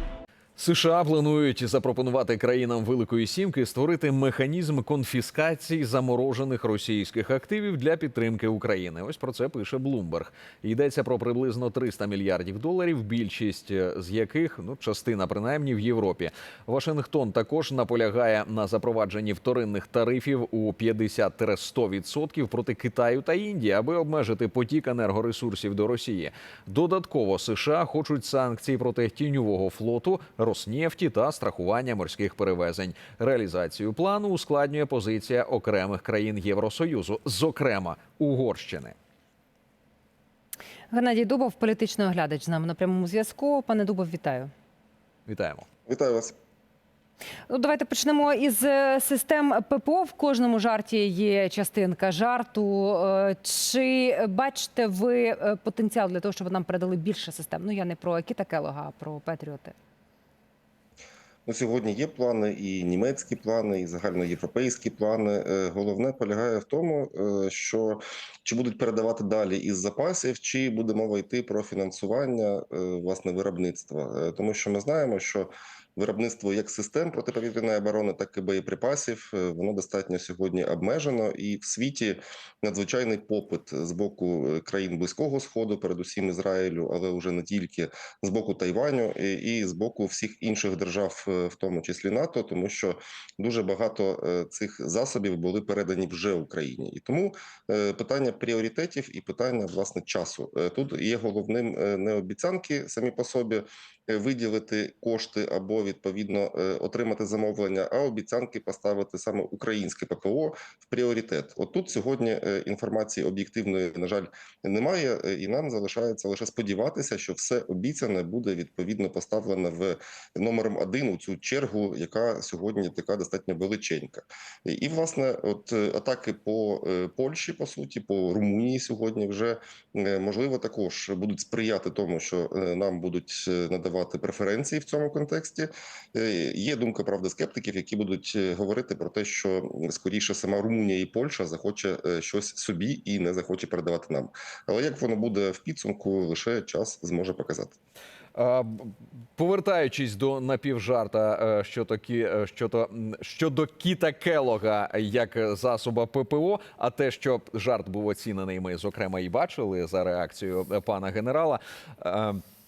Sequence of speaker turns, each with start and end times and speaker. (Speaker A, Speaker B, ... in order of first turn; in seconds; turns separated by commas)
Speaker A: 0.6-38.9, Speaker B: 40.9-44.5, Speaker A: 45.3-45.6, Speaker C: 45.9-46.3, Speaker B: 47.5-59.7, Speaker C: 61.5-147.8, Speaker A: 148.3-162.4